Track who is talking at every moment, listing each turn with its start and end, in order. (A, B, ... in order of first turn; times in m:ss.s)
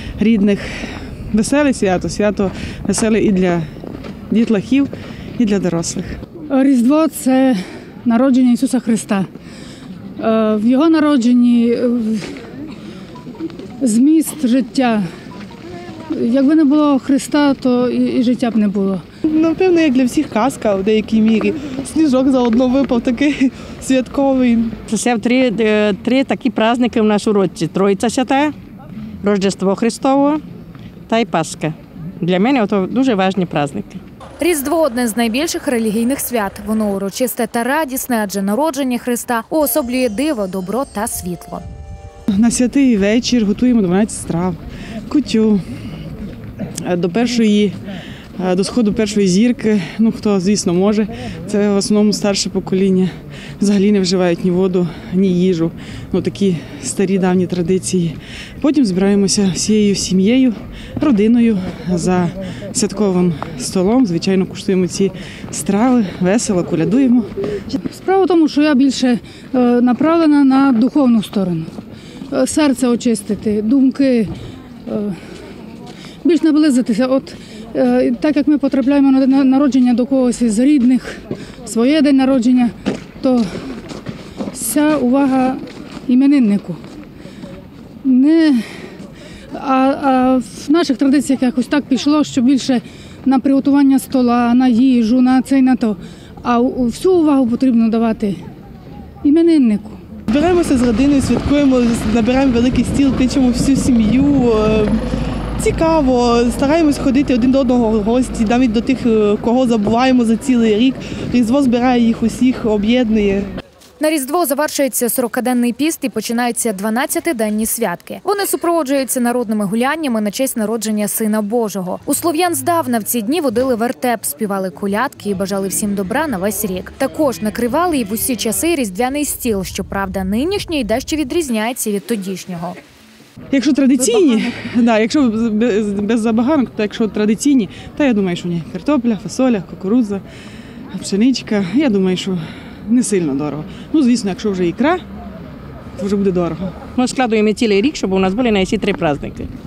0:00.2-0:03.6 A
0:04.3-0:06.2 A
0:06.5-0:09.3 B
0:10.2-0:12.4 B
0:13.8-0:15.1 B
0:16.1-0:19.0 B
0:19.3-0:24.7 C
0:24.9-0:28.5 D
0:29.2-0:30.4 D
0:31.1-0:34.0 D
0:34.4-0:41.6 E
0:42.4-0:44.6 A
0:45.1-0:45.6 A
0:46.8-0:47.8 A
0:48.4-1:07.3 A
1:07.7-1:11.7 B
1:12.3-1:14.3 B
1:14.9-1:15.2 B
1:16.2-1:23.5 B
1:24.5-1:26.8 B
1:28.0-1:28.7 B
1:29.5-1:38.4 B
1:39.2-1:40.0 B
1:40.3-1:45.0 C
1:45.6-1:53.5 C
1:54.0-2:12.8 E
2:13.5-2:20.2 A
2:20.9-2:25.0 A
2:26.0-2:26.7 A
2:27.0-2:29.5 D